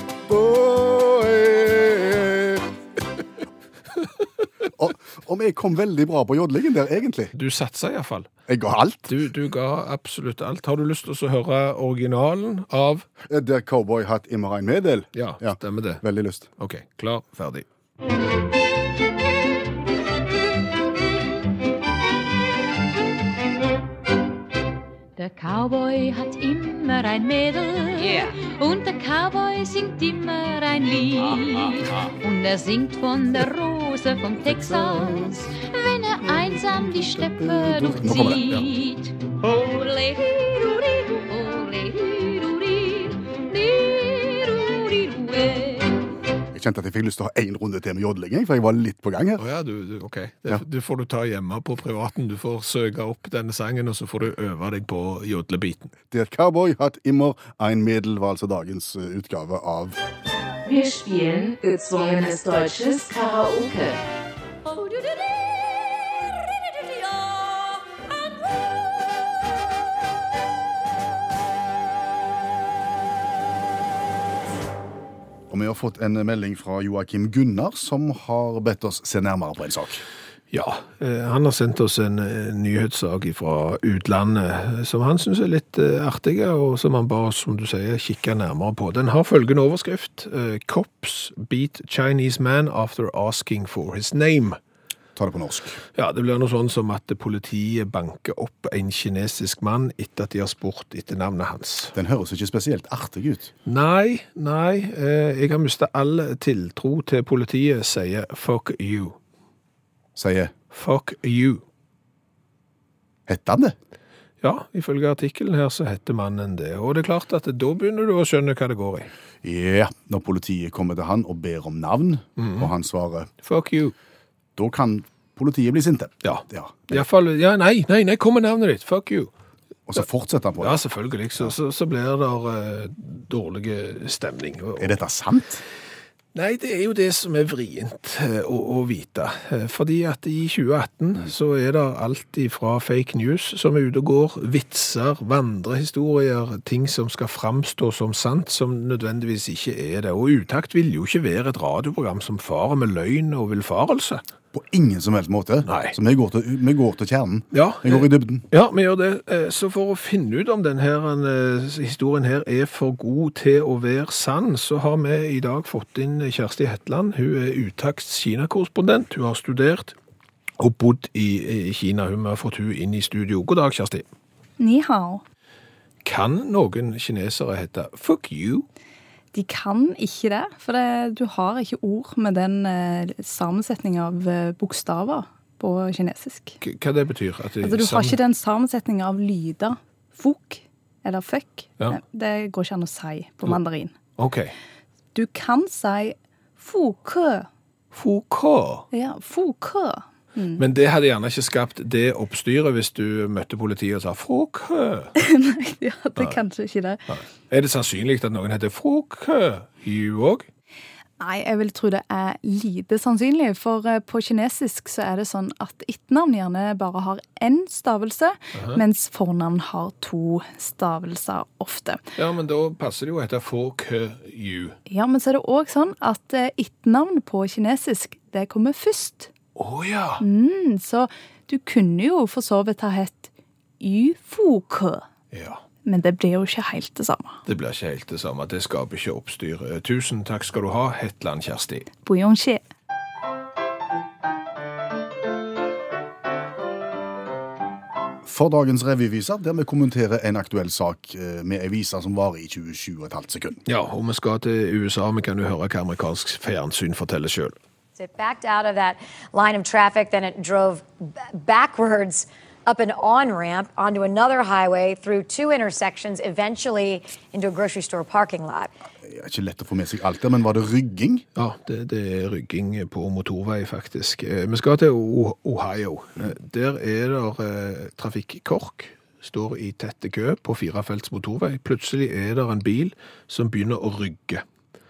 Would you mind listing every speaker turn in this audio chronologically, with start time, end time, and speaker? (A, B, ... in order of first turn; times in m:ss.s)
0:00.2-0:02.7 A
0:04.7-0:07.3 A
0:07.3-0:08.3 B
0:08.5-0:09.1 A
0:09.1-0:13.0 B
0:13.3-0:16.5 A
0:15.1-0:16.0 B
0:16.6-0:17.6 B
0:25.2-0:46.0 C
0:28.0-0:28.4 D
0:34.4-0:35.5 A
0:36.7-0:38.6 A
0:46.5-0:49.4 A
0:49.4-0:55.9 B
0:56.1-1:00.0 A
1:00.6-1:04.0 D
1:15.5-1:20.0 A
1:20.5-1:34.6 B
1:35.2-1:35.8 A
1:35.9-1:41.9 B
1:41.9-1:43.5 A
1:43.6-1:49.2 B
1:50.2-1:50.5 A
1:50.7-1:51.6 B
1:53.3-1:53.7 A
1:54.4-1:59.1 B
1:59.4-2:03.3 A
2:02.4-2:02.7 B
2:03.4-2:03.9 B
2:04.6-2:07.0 A
2:06.2-2:09.3 B
2:09.9-2:10.8 A
2:10.6-2:15.0 B
2:14.8-2:15.6 A
2:16.3-2:34.2 B
2:34.5-2:38.4 A
2:35.6-2:35.9 B
2:37.5-2:50.0 B
2:50.6-2:54.1 B
2:54.6-2:55.2 E
2:56.0-2:58.6 B
2:59.3-3:06.6 E
3:06.6-3:08.2 B
3:07.6-3:13.9 E
3:14.2-3:14.5 B
3:15.1-3:17.5 E
3:17.9-3:18.9 B
3:18.9-3:20.6 E
3:20.6-3:25.1 B
3:25.2-3:27.0 E
3:27.1-3:30.5 B
3:31.2-3:42.0 E
3:38.5-3:38.8 B
3:42.2-3:44.8 B
3:44.9-3:49.3 E
3:49.6-3:50.2 B
3:50.2-3:53.3 E
3:53.8-3:55.0 E
3:55.3-3:55.6 B
3:55.8-3:57.4 E
3:57.4-4:01.9 B
4:02.0-4:02.6 E
4:08.2-4:13.6 A
4:13.6-4:17.6 B
4:18.0-4:28.7 F
4:29.0-4:31.2 A
4:31.4-4:44.4 B